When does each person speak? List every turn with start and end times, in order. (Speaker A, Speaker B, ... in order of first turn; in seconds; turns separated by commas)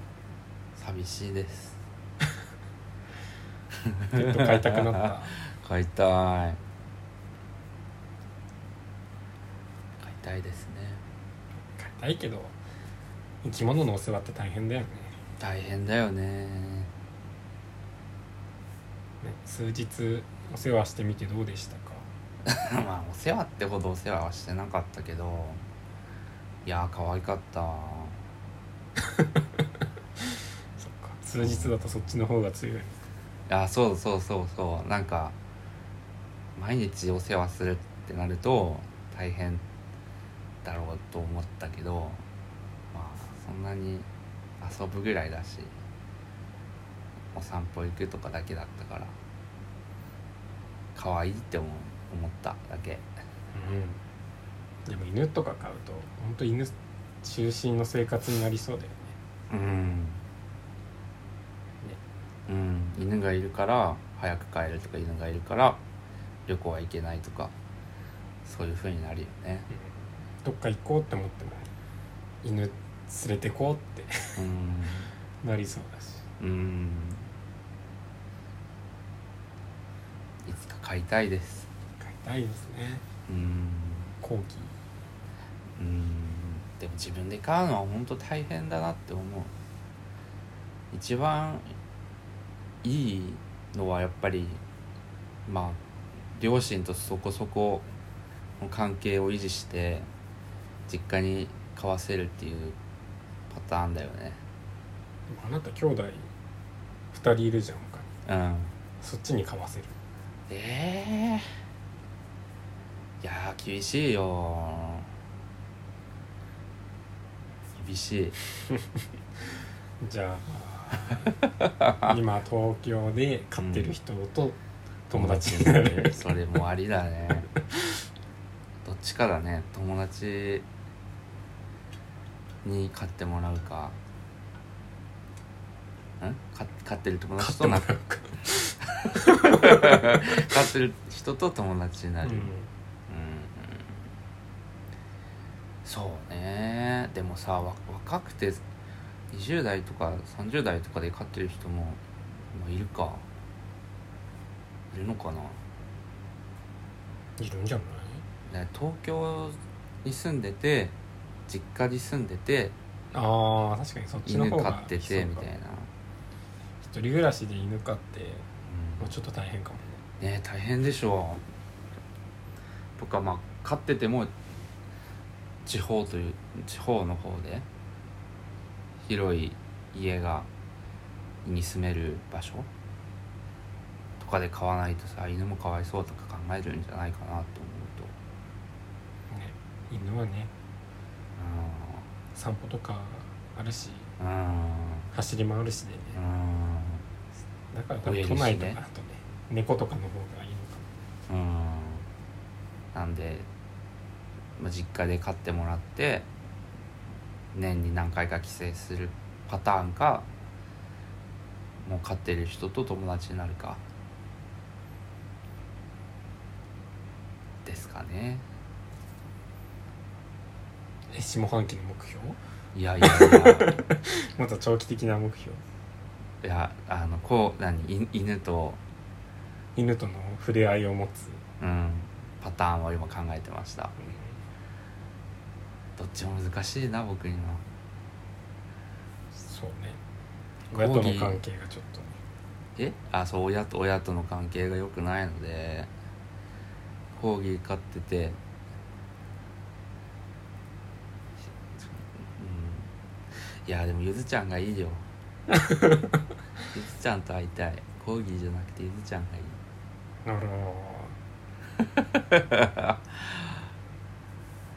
Speaker A: 0.8-1.8, Speaker A: 3.7-6.6, Speaker B: 4.1-5.3, Speaker A: 10.0-11.0, Speaker B: 11.7-12.5, Speaker B: 13.4-15.1, Speaker A: 15.4-16.9, Speaker B: 19.2-22.1, Speaker A: 22.4-25.6, Speaker A: 26.6-28.2, Speaker B: 29.1-29.4, Speaker B: 30.8-33.0, Speaker A: 31.4-32.1, Speaker A: 33.5-35.4, Speaker A: 36.5-39.6, Speaker A: 40.6-42.2, Speaker A: 42.9-44.1, Speaker A: 44.6-45.7, Speaker A: 47.3-49.1, Speaker A: 50.9-53.1, Speaker B: 53.5-54.0, Speaker B: 54.9-59.2, Speaker A: 59.5-60.2, Speaker A: 62.5-65.8, Speaker A: 66.5-67.5, Speaker A: 68.4-69.7, Speaker B: 69.7-71.7, Speaker B: 72.4-74.4, Speaker A: 74.4-75.1, Speaker B: 75.4-76.2, Speaker A: 76.4-77.2, Speaker A: 80.4-81.7, Speaker B: 82.0-83.0, Speaker A: 83.3-84.1, Speaker B: 84.2-84.7, Speaker A: 85.8-89.5, Speaker A: 90.9-91.7, Speaker A: 92.8-94.6, Speaker A: 95.5-95.8, Speaker A: 96.3-97.9, Speaker A: 98.6-100.1, Speaker A: 100.9-102.8, Speaker A: 103.5-104.4, Speaker B: 105.3-106.3, Speaker B: 107.1-108.1, Speaker A: 108.2-108.7, Speaker B: 109.0-110.0, Speaker A: 110.5-111.5, Speaker A: 113.2-115.1, Speaker A: 117.7-118.3, Speaker B: 120.0-121.4, Speaker A: 121.6-122.2, Speaker B: 122.0-124.6, Speaker A: 123.6-123.9, Speaker B: 125.1-126.2, Speaker A: 125.1-127.5, Speaker A: 128.8-130.7, Speaker A: 132.6-134.0, Speaker A: 136.2-137.9, Speaker B: 137.4-140.3, Speaker A: 139.0-142.5, Speaker B: 142.2-142.7, Speaker A: 143.1-144.0, Speaker A: 145.8-148.6, Speaker A: 149.3-153.2, Speaker A: 154.9-155.6, Speaker B: 157.4-158.2, Speaker A: 158.5-160.9, Speaker A: 161.5-162.7, Speaker B: 163.1-165.5, Speaker A: 164.2-165.9, Speaker B: 166.8-168.4, Speaker A: 168.7-169.1, Speaker B: 169.0-170.0, Speaker A: 170.2-171.4, Speaker A: 173.0-174.3, Speaker A: 175.6-177.7, Speaker A: 179.0-180.5, Speaker A: 181.4-182.7, Speaker A: 184.2-188.1, Speaker B: 189.3-190.5, Speaker A: 191.3-192.1, Speaker B: 192.3-194.1, Speaker A: 194.2-195.1, Speaker B: 195.1-196.2, Speaker A: 196.1-197.0, Speaker B: 197.7-200.8, Speaker A: 198.0-198.8, Speaker A: 201.3-202.1, Speaker A: 202.9-203.5, Speaker A: 204.6-206.3, Speaker A: 207.5-210.3, Speaker A: 211.8-213.8, Speaker A: 217.6-218.4, Speaker B: 221.1-222.4, Speaker A: 222.7-223.8, Speaker B: 223.0-225.6, Speaker A: 226.4-228.8, Speaker B: 229.8-231.4, Speaker A: 231.6-233.9, Speaker B: 234.0-234.4, Speaker A: 236.0-237.6, Speaker B: 239.3-240.0, Speaker B: 240.7-242.2, Speaker A: 240.7-241.4, Speaker A: 242.8-245.9, Speaker A: 247.1-248.4, Speaker A: 251.4-255.0, Speaker B: 255.5-256.2, Speaker A: 256.7-259.6, Speaker B: 260.2-261.1, Speaker A: 261.8-263.7